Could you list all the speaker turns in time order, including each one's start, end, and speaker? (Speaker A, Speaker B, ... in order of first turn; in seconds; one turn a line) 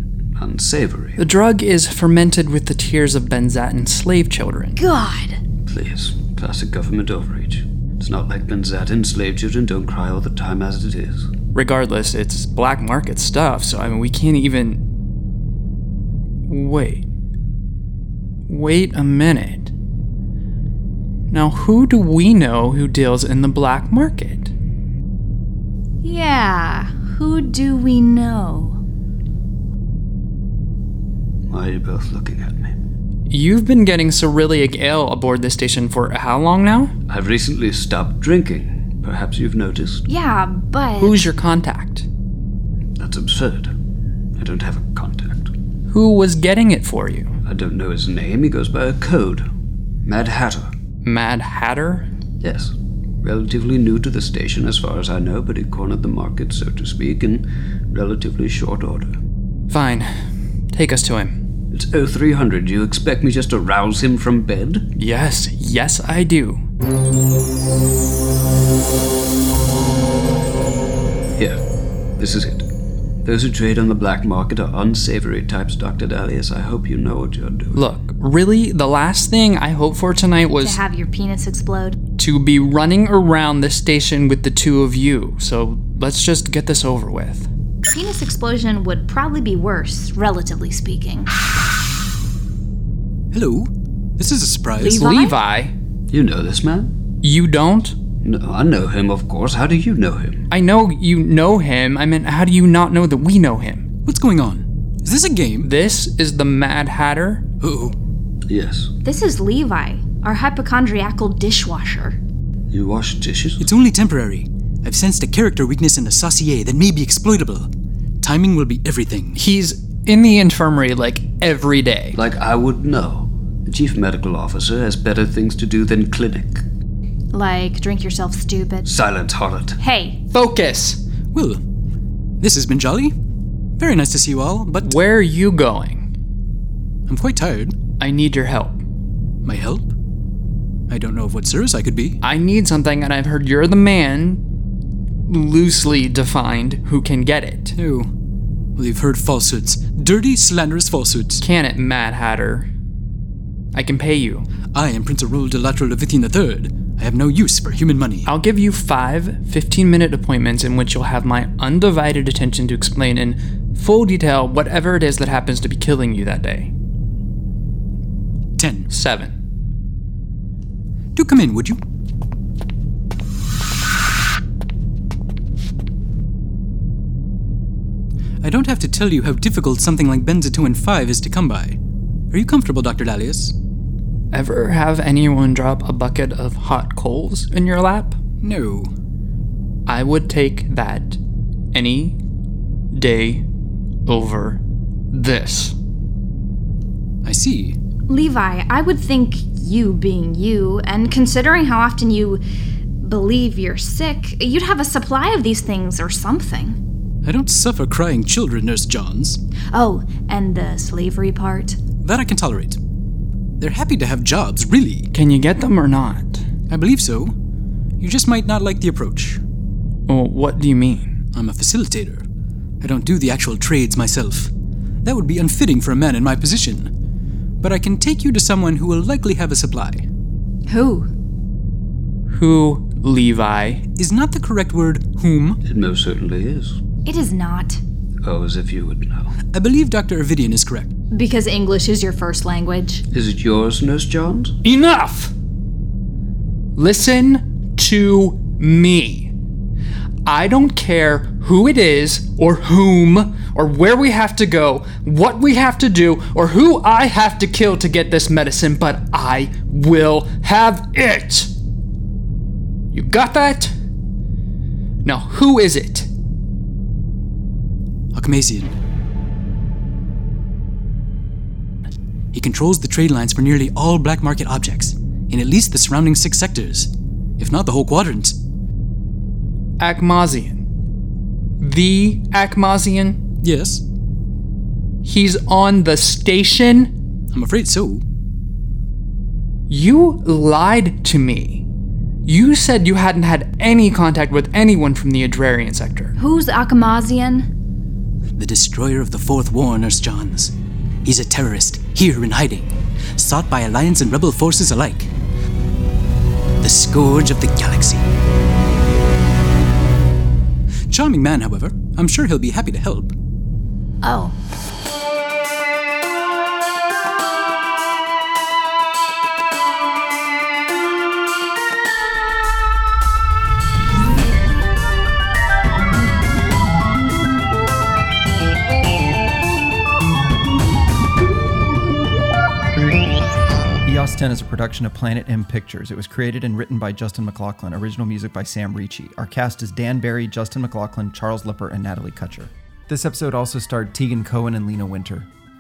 Speaker A: 0.4-1.2
Speaker B: 1.2-4.8
Speaker C: 4.8-5.4
Speaker A: 5.7-11.3
Speaker B: 11.5-14.8
Speaker B: 16.5-17.0
Speaker B: 18.5-19.7
Speaker B: 21.3-24.5
Speaker C: 26.0-28.8
Speaker A: 31.5-32.7
Speaker B: 33.3-36.9
Speaker A: 37.1-40.1
Speaker C: 40.1-41.2
Speaker B: 41.0-42.1
Speaker A: 43.0-43.7
Speaker A: 44.4-45.5
Speaker B: 45.9-47.3
Speaker A: 47.5-49.5
Speaker A: 50.0-50.7
Speaker B: 51.0-52.1
Speaker A: 52.4-59.1
Speaker B: 59.7-60.1
Speaker B: 60.7-61.4
Speaker A: 61.7-64.9
Speaker B: 65.0-66.6
Speaker A: 72.2-72.7
Speaker A: 73.2-77.8
Speaker B: 77.7-80.8
Speaker C: 80.6-82.0
Speaker B: 82.2-87.5
Speaker C: 87.9-91.3
Speaker D: 93.3-95.0
Speaker C: 94.8-95.4
Speaker B: 94.8-95.7
Speaker A: 96.1-96.9
Speaker B: 97.2-98.0
Speaker A: 98.2-100.5
Speaker B: 100.5-103.9
Speaker D: 104.0-105.7
Speaker B: 105.6-107.5
Speaker D: 107.6-108.0
Speaker A: 108.5-108.9
Speaker C: 109.0-112.2
Speaker A: 112.7-113.7
Speaker D: 113.6-117.7
Speaker D: 118.2-119.4
Speaker B: 119.4-122.2
Speaker A: 122.2-126.6
Speaker C: 127.3-128.9
Speaker A: 128.9-129.8
Speaker C: 129.8-130.2
Speaker B: 130.3-131.0
Speaker D: 131.3-131.6
Speaker D: 132.4-133.1
Speaker D: 133.8-135.0
Speaker B: 134.8-136.1
Speaker D: 137.1-137.8
Speaker B: 138.0-138.8
Speaker D: 139.4-139.9
Speaker D: 140.9-142.2
Speaker B: 142.2-144.4
Speaker B: 145.3-147.8
Speaker D: 147.8-148.1
Speaker D: 148.8-151.4
Speaker B: 151.4-152.7
Speaker B: 153.7-154.5
Speaker D: 154.7-158.3
Speaker B: 158.2-166.7
Speaker D: 168.6-168.9
Speaker B: 168.9-169.3
Speaker D: 171.2-171.8
Speaker D: 178.4-181.8
Speaker D: 182.3-183.5
Speaker B: 184.3-188.2
Speaker D: 188.4-188.9
Speaker B: 189.9-191.2
Speaker B: 191.7-192.2
Speaker B: 192.9-193.4
Speaker B: 194.1-194.6
Speaker B: 195.1-195.8
Speaker D: 197.2-197.8
Speaker C: 198.1-202.4
Speaker C: 203.0-206.8
Speaker D: 207.2-209.4
Speaker C: 209.7-211.8
Speaker D: 212.0-212.8
Speaker D: 213.6-215.1
Speaker B: 215.1-216.4
Speaker D: 216.7-217.3
Speaker D: 218.0-219.4
Speaker B: 220.1-221.1
Speaker D: 221.3-222.2
Speaker D: 222.8-224.5
Speaker D: 225.0-226.9
Speaker D: 227.6-230.1
Speaker C: 230.7-231.1
Speaker B: 232.3-233.8
Speaker D: 234.0-235.6
Speaker A: 235.6-236.8
Speaker C: 237.1-237.8
Speaker A: 238.2-239.3
Speaker D: 239.5-240.9
Speaker C: 241.1-243.0
Speaker A: 243.1-244.6
Speaker B: 244.6-245.3
Speaker B: 246.8-249.3
Speaker B: 250.3-261.5
Speaker B: 262.9-263.7
Speaker B: 265.0-266.1
Speaker D: 268.1-268.8
Speaker D: 272.3-278.4
Speaker B: 279.8-280.6
Speaker B: 281.6-283.2
Speaker D: 283.4-283.8
Speaker B: 285.0-286.9
Speaker D: 287.3-288.0
Speaker B: 289.7-291.6
Speaker B: 292.3-296.1
Speaker C: 296.2-297.5
Speaker D: 298.4-305.1
Speaker D: 306.6-308.1
Speaker D: 310.9-313.1
Speaker C: 314.0-314.3
Speaker E: 333.9-345.3